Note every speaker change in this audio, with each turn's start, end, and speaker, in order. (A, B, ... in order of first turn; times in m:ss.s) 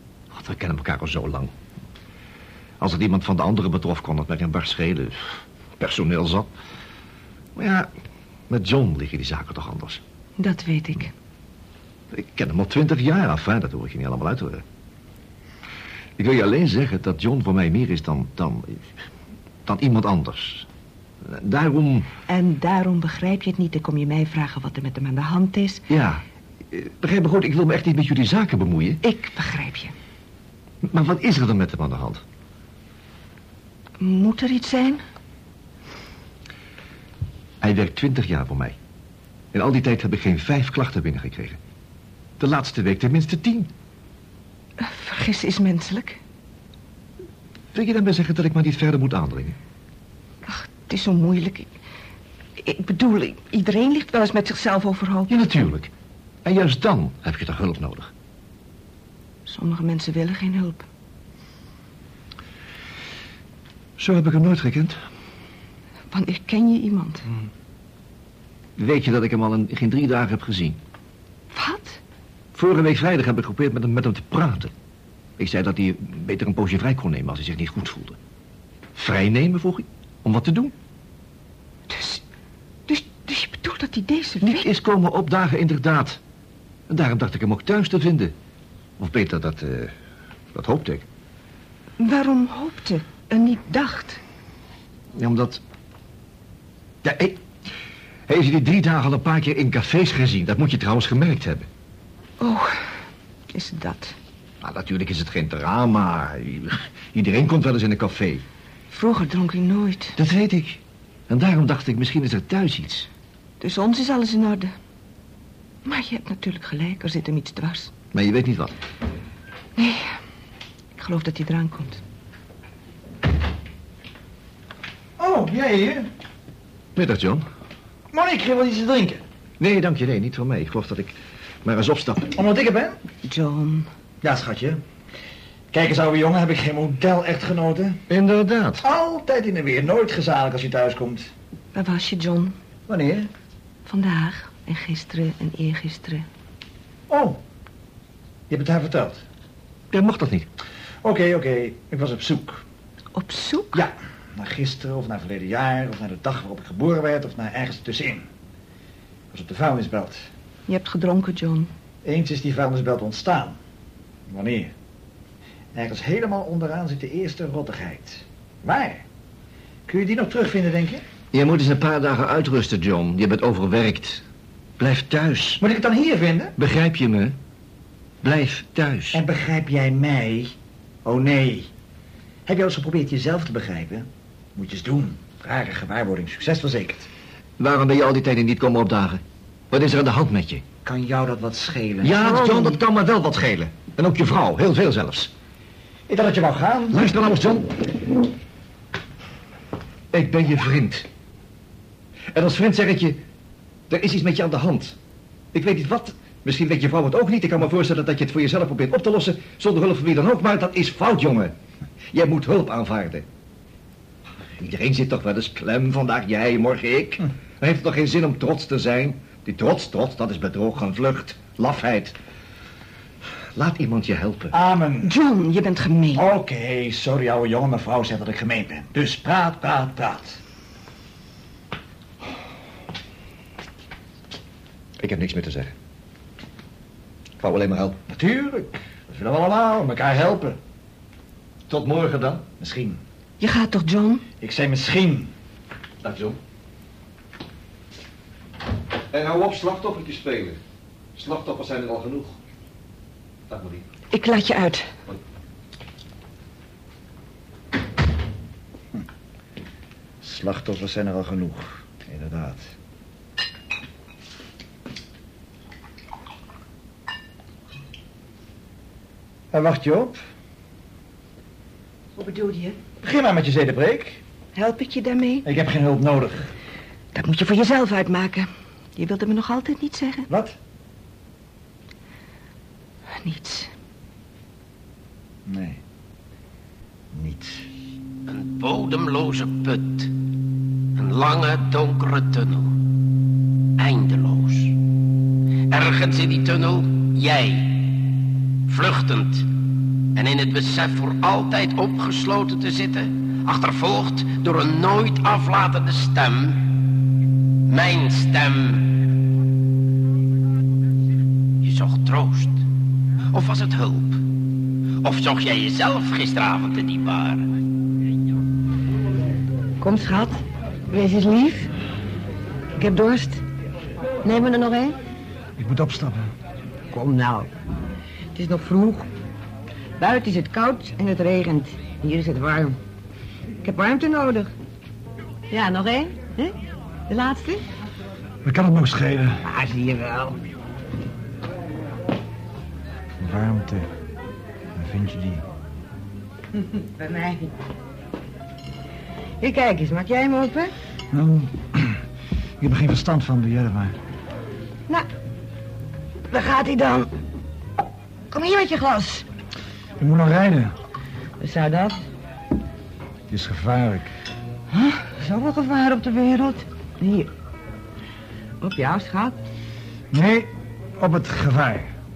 0:00.3-0:01.5 A
0:02.8-0:06.5 A
0:07.6-0:07.9 A
0:08.5-0:10.0 A
0:10.4-0:11.1 B
0:12.1-0:14.6 A
0:16.2-0:18.9 A
0:19.7-0:20.7 A
0:21.2-0:22.1 A
0:22.3-0:25.8 B
0:25.9-0:29.0 A
0:29.0-0:29.9 B
0:30.8-0:32.2 A
0:34.0-0:35.0 B
0:37.6-0:38.8 A
0:39.5-0:41.6 A
0:42.4-0:43.7 A
0:44.8-0:46.2 B
0:47.7-0:49.6 A
0:50.4-0:51.7 B
0:52.6-0:55.3 B
0:55.3-0:55.9 A
0:56.4-0:58.1 A
0:59.5-1:00.9 B
1:04.0-1:05.0 A
1:06.1-1:07.3 B
1:08.8-1:10.8 A
1:11.5-1:12.0 B
1:12.5-1:14.7 A
1:15.4-1:18.2 A
1:19.0-1:20.7 A
1:21.9-1:22.2 B
1:22.9-1:24.7 B
1:24.4-1:26.2 A
1:26.9-1:28.3 A
1:29.0-1:29.9 A
1:30.5-1:31.1 A
1:32.0-1:34.2 B
1:35.1-1:35.6 A
1:37.0-1:37.4 A
1:38.3-1:41.7 A
1:42.4-1:43.0 B
1:43.5-1:44.2 B
1:44.6-1:48.4 A
1:48.9-1:50.2 B
1:50.2-1:53.1 A
1:53.6-1:54.7 B
1:55.8-1:57.9 B
1:58.1-1:58.7 A
1:59.8-2:00.2 B
2:01.0-2:02.0 B
2:05.2-2:06.1 C
2:07.0-2:07.4 A
2:08.1-2:09.2 C
2:09.6-2:12.3 A
2:12.3-2:13.0 C
2:13.2-2:13.9 B
2:14.2-2:14.8 C
2:15.7-2:18.0 C
2:18.1-2:18.8 A
2:18.8-2:21.3 C
2:21.7-2:22.6 B
2:22.9-2:23.3 C
2:23.9-2:26.3 B
2:27.1-2:27.4 C
2:28.5-2:29.2 C
2:29.9-2:30.5 A
2:31.0-2:32.6 C
2:33.1-2:33.8 B
2:33.7-2:38.3 C
2:39.3-2:40.3 C
2:40.7-2:41.7 B
2:42.0-2:43.6 C
2:44.3-2:44.7 C
2:45.7-2:49.0 C
2:49.9-2:51.0 C
2:51.3-2:54.2 A
2:54.8-2:55.6 A
2:55.6-2:56.5 C
2:56.6-2:57.4 A
2:58.2-2:59.2 A
2:59.1-3:01.7 C
3:02.5-3:07.1 C
3:07.6-3:10.6 A
3:10.8-3:12.7 C
3:12.0-3:15.3 A
3:16.1-3:17.1 C
3:16.9-3:17.7 A
3:20.1-3:21.1 A
3:22.3-3:23.2 A
3:23.9-3:25.0 A
3:25.5-3:31.6 A
3:32.1-3:33.3 A
3:34.6-3:42.2 A
3:43.6-3:44.5 A
3:44.5-3:45.1 C
3:45.0-3:46.3 B
3:46.1-3:50.4 C
3:55.0-3:55.7 A
3:57.4-3:58.0 A
3:58.1-4:00.6 C
4:01.7-4:02.5 A
4:02.6-4:03.0 C
4:03.4-4:04.3 B
4:04.4-4:05.3 C
4:06.0-4:06.4 A
4:09.1-4:10.6 A
4:11.2-4:12.4 A
4:13.5-4:13.9 A
4:14.1-4:14.9 B
4:20.2-4:22.7 C
4:29.5-4:30.2 C
4:32.2-4:32.8 B
4:33.0-4:34.2 C
4:34.6-4:35.5 B
4:35.4-4:36.5 C
4:37.1-4:40.3 B
4:40.3-4:40.6 C
4:43.2-4:43.7 B
4:45.5-4:45.8 C
4:47.1-4:47.7 C
4:48.3-4:50.1 D
4:51.0-4:52.7 D
4:53.8-4:54.8 D
4:55.7-4:57.8 D
4:58.7-4:59.5 D
5:00.2-5:06.6 D
5:07.7-5:08.9 D
5:11.6-5:12.6 D
5:13.3-5:14.2 D
5:15.0-5:17.5 D
5:19.8-5:21.7 E
5:22.8-5:23.4 E
5:24.2-5:25.0 E
5:25.6-5:26.3 C
5:26.9-5:27.5 E
5:28.4-5:29.1 E
5:30.0-5:32.8 E
5:33.6-5:34.5 E
5:35.5-5:36.6 E
5:37.1-5:37.6 E
5:38.4-5:39.4 C
5:39.4-5:40.4 E
5:43.2-5:43.9 C
5:44.8-5:45.4 C
5:46.6-5:47.5 E
5:49.4-5:50.7 E
5:51.1-5:52.0 C
5:52.6-5:54.0 C
5:56.3-5:57.1 E
5:58.3-5:59.3 E
6:00.0-6:00.8 C
6:01.4-6:02.0 E
6:03.3-6:04.1 C
6:04.7-6:07.3 E
6:08.6-6:09.4 E
6:10.1-6:11.9 C